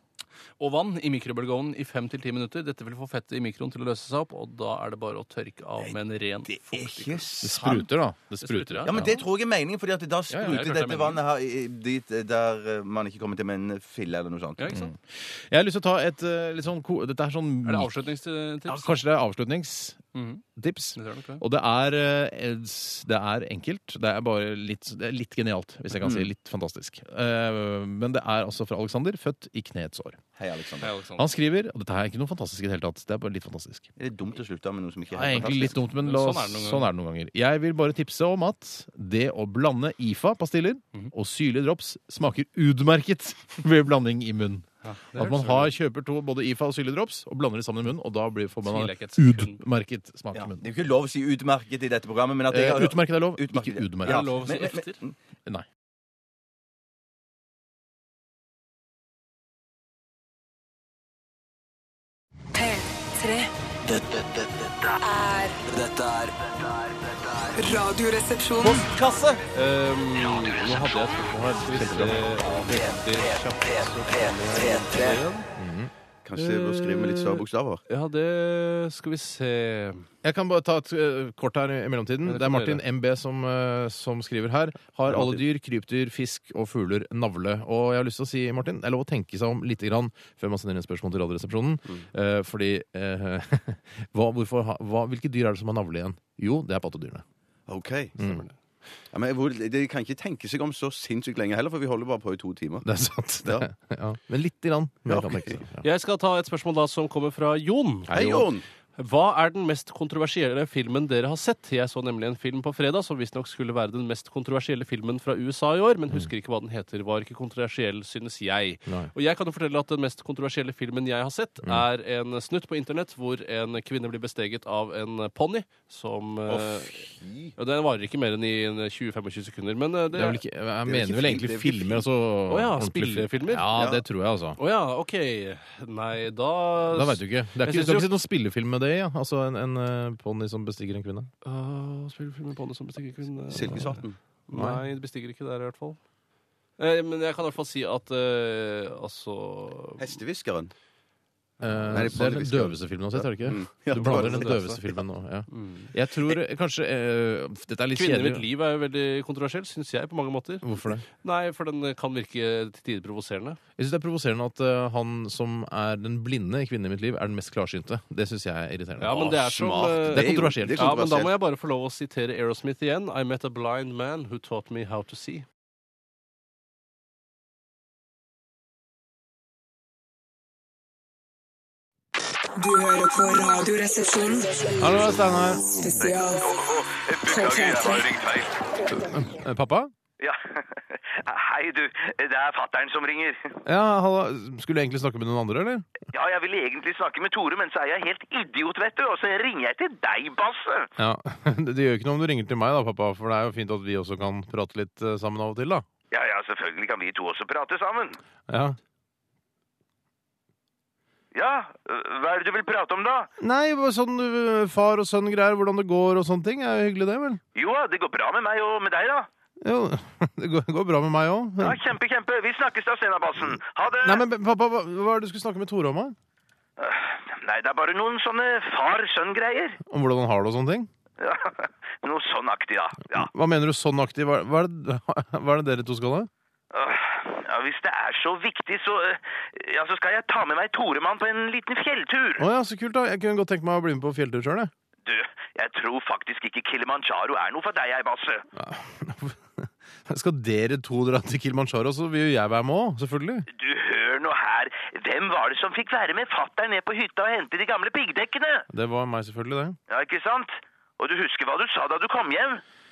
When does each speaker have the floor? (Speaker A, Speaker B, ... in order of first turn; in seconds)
Speaker A: 0.6-7.2, 8.4-9.1, 10.4-11.2, 14.6-14.9, 17.6-19.0, 20.1-20.4, 20.9-21.4, 30.8-31.3, 36.0-36.9, 44.8-45.7, 48.6-49.6, 54.0-55.0, 68.6-75.5, 76.4-80.1, 82.2-82.8, 105.8-108.1, 109.0-130.4, 132.5-133.7, 134.6-138.1, 141.4-146.0, 146.8-150.1, 151.7-152.0, 153.9-154.6, 155.5-155.9, 157.9-160.6, 161.2-163.6, 169.0-175.4
Speaker B: 6.4-7.9, 8.8-14.7, 26.0-26.3, 30.4-30.9, 34.0-35.8, 50.3-55.1, 76.2-77.8, 85.1-85.3, 97.7-98.3, 99.1-102.9, 105.1-105.6, 108.1-108.6, 126.5-127.5, 130.8-132.1, 133.7-134.0, 143.5-144.2, 150.0-150.7, 151.9-154.9, 169.1-171.3
Speaker C: 7.4-9.2, 10.3-10.7, 14.7-17.9, 18.7-20.0, 20.6-30.2, 31.1-33.9, 35.1-50.6, 52.5-54.3, 71.3-72.2, 75.5-75.9, 80.2-97.2, 98.2-98.5, 102.8-105.8, 108.1-108.5, 118.8-119.1, 130.1-134.6, 136.9-141.3, 144.5-144.8, 151.6-158.4, 160.6-161.0, 163.8-171.0, 184.8-185.6, 188.9-189.9, 193.6-195.8, 201.0-205.8, 208.5-208.8, 213.4-217.4, 219.6-221.9, 224.0-226.2, 229.9-230.9, 233.1-236.3, 242.4-244.7, 248.5-253.5, 258.7-259.8
Speaker D: 62.5-63.5, 65.0-65.6, 67.5-68.9, 182.6-184.9, 185.7-186.5, 187.2-188.1
Speaker E: 63.8-65.0, 65.7-67.6, 72.4-75.2
Speaker F: 186.0-188.5, 190.2-193.6, 196.1-200.9, 206.1-208.2, 211.3-213.3, 217.5-219.3, 221.6-224.2, 226.8-229.8, 231.2-233.3, 236.7-242.4, 245.0-248.4, 253.5-258.7, 259.9-262.6